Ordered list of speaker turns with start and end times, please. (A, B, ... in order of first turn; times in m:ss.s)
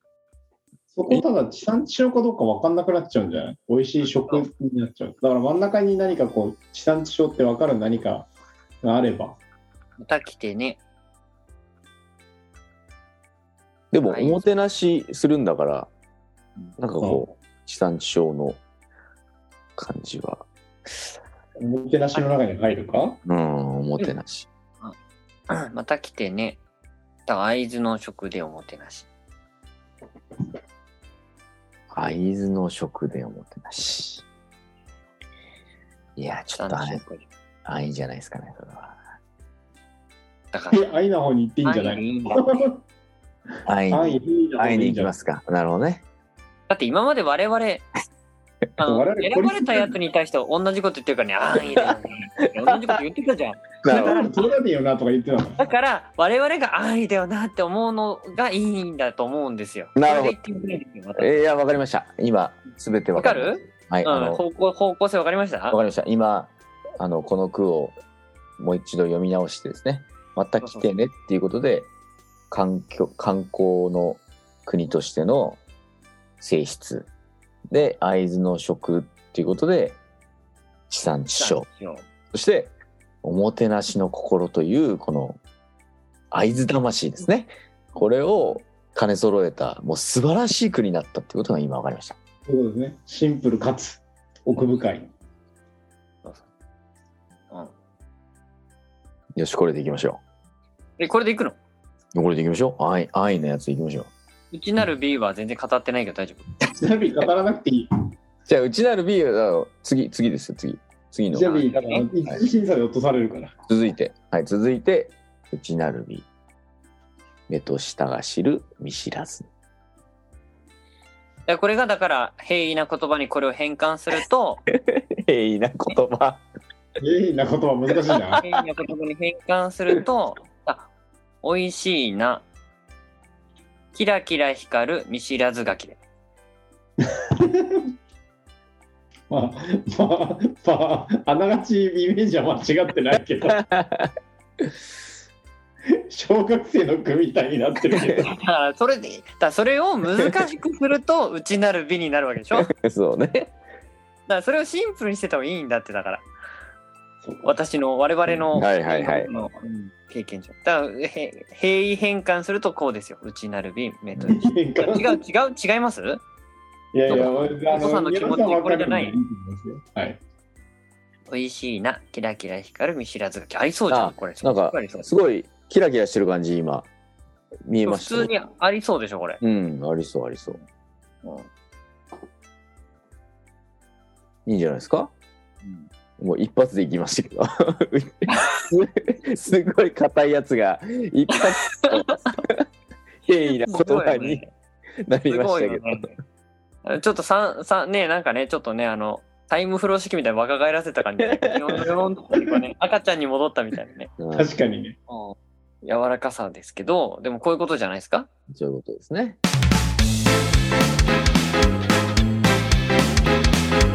0:00.9-0:08.3 A
0:04.0-0:04.5 B
0:08.8-0:09.4 A
0:10.0-0:10.8 B
0:13.9-0:15.9 C
0:14.0-0:14.5 B
0:16.8-0:18.6 C
0:19.8-0:20.5 C
0:21.6-0:23.2 A
0:23.3-0:24.5 C
0:25.5-0:26.6 B
0:27.3-0:29.1 B
0:31.9-0:34.3 C
0:36.2-0:37.0 C
0:36.6-0:37.3 B
0:37.6-0:39.0 C
0:40.5-0:40.8 B
0:40.7-0:42.8 A
0:41.6-0:42.7 B
0:43.7-0:46.0 C
0:43.9-0:45.1 A
0:46.7-0:47.8 B
0:48.8-0:54.4 B
0:48.9-0:50.0 A
0:53.8-0:54.2 C
0:53.9-0:55.7 A
0:55.6-1:01.4 B
1:00.0-1:00.4 C
1:01.2-1:04.4 C
1:03.2-1:05.8 B
1:05.7-1:08.0 C
1:08.6-1:11.9 C
1:10.6-1:10.9 B
1:12.5-1:15.6 C
1:16.4-1:17.1 C
1:17.7-1:20.0 C
1:20.9-1:21.7 C
1:21.4-1:22.1 B
1:22.3-1:25.4 C
1:26.3-1:32.2 C
1:32.5-1:35.1 A
1:39.4-1:40.2 C
1:41.0-1:41.6 B
1:42.1-1:44.1 C
1:44.5-1:46.4 B
1:46.6-1:47.9 A
1:48.5-1:51.6 C
1:51.3-1:53.5 A
1:51.4-1:52.1 B
1:53.7-1:56.3 C
1:57.5-1:59.5 C
2:01.5-2:04.6 B
2:04.8-2:06.4 C
2:07.0-2:08.4 A
2:08.1-2:08.4 C
2:08.4-2:10.9 B
2:11.4-2:12.5 B
2:13.9-2:16.0 B
2:17.0-2:17.9 A
2:19.3-2:23.6 A
2:23.5-2:24.7 C
2:26.1-2:28.3 A
2:27.9-2:28.2 C
2:28.2-2:32.7 B
2:32.5-2:33.6 C
2:34.3-2:36.3 B
2:37.2-2:37.5 A
2:37.4-2:46.2 B
2:38.3-2:39.3 C
2:44.3-2:45.1 A
2:46.9-2:50.2 A
2:47.1-2:47.6 C
2:47.1-2:49.2 B
2:51.3-2:55.1 B
2:53.9-2:56.9 C
2:57.7-2:58.3 C
2:57.8-2:59.4 B
2:59.4-3:00.6 C
3:04.5-3:05.1 C
3:05.6-3:05.9 B
3:06.2-3:12.6 C
3:08.3-3:08.6 B
3:11.3-3:12.3 B
3:13.2-3:14.4 C
3:13.6-3:14.5 B
3:15.1-3:16.1 C
3:15.3-3:16.2 B
3:16.8-3:24.1 B
3:21.3-3:21.9 C
3:24.2-3:24.5 C
3:24.3-3:25.0 A
3:25.1-3:28.3 B
3:28.5-3:29.4 C